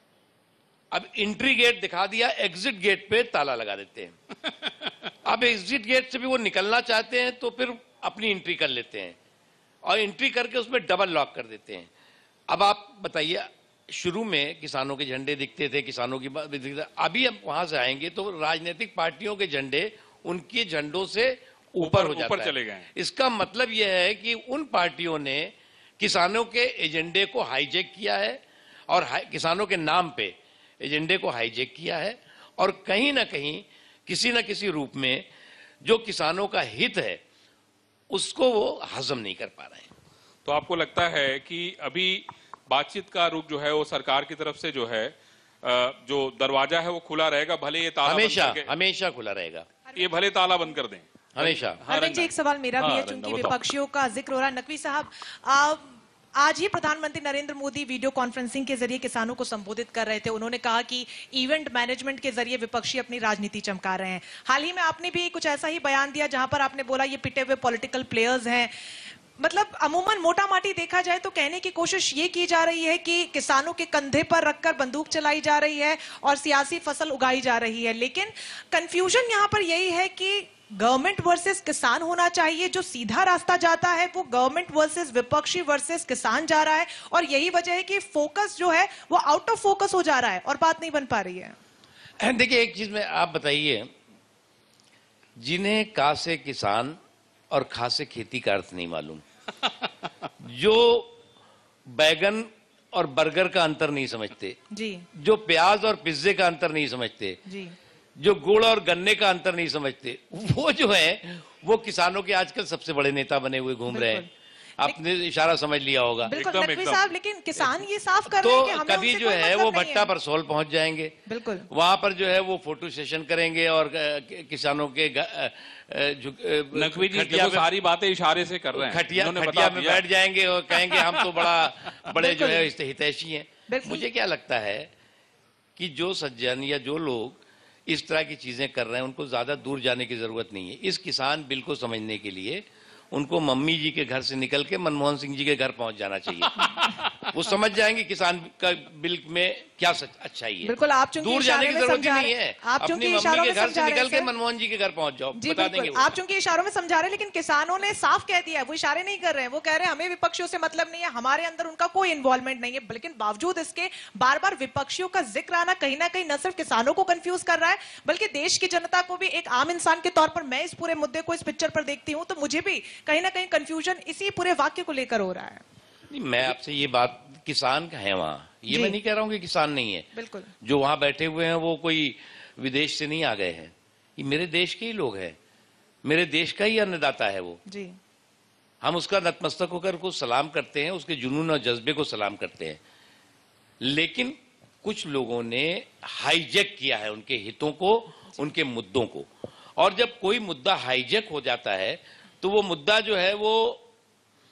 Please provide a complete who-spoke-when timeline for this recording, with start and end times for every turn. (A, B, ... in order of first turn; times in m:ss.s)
0:00.9-0:04.2 A
0:05.2-0:09.2 A
0:09.8-0:11.9 A
0:12.5-0:35.2 A
0:21.8-0:22.9 B
0:35.8-0:37.2 A
0:38.1-0:39.9 A
0:40.4-0:48.7 B
0:48.0-0:49.6 A
0:49.9-0:53.6 B
0:51.4-0:51.8 A
0:51.9-1:08.7 C
1:09.4-1:31.6 C
1:32.2-1:33.9 A
1:35.4-1:37.0 A
1:37.5-1:39.2 A
1:40.4-1:41.1 A
1:41.9-1:44.6 A
1:44.7-1:45.0 C
1:45.1-1:47.4 A
1:47.5-1:47.7 C
1:48.2-1:54.2 A
1:53.9-1:54.3 C
1:54.8-1:56.3 A
1:56.3-2:00.1 C
1:56.3-1:57.1 B
1:58.2-2:01.2 A
2:01.3-2:01.7 C
2:01.7-2:07.7 A
2:06.7-2:10.0 B
2:08.7-2:14.9 A
2:10.7-2:12.1 B
2:12.2-2:12.7 C
2:13.7-2:14.0 C
2:15.8-2:36.2 A
2:26.6-2:27.1 B
2:30.6-2:34.3 C
2:35.4-2:55.6 C
2:56.1-3:00.1 A
2:58.7-2:59.0 C
3:00.1-3:00.5 C
3:00.6-3:05.4 A
3:06.0-3:07.6 A
3:07.7-3:07.9 C
3:08.8-3:12.8 A
3:13.8-3:23.8 A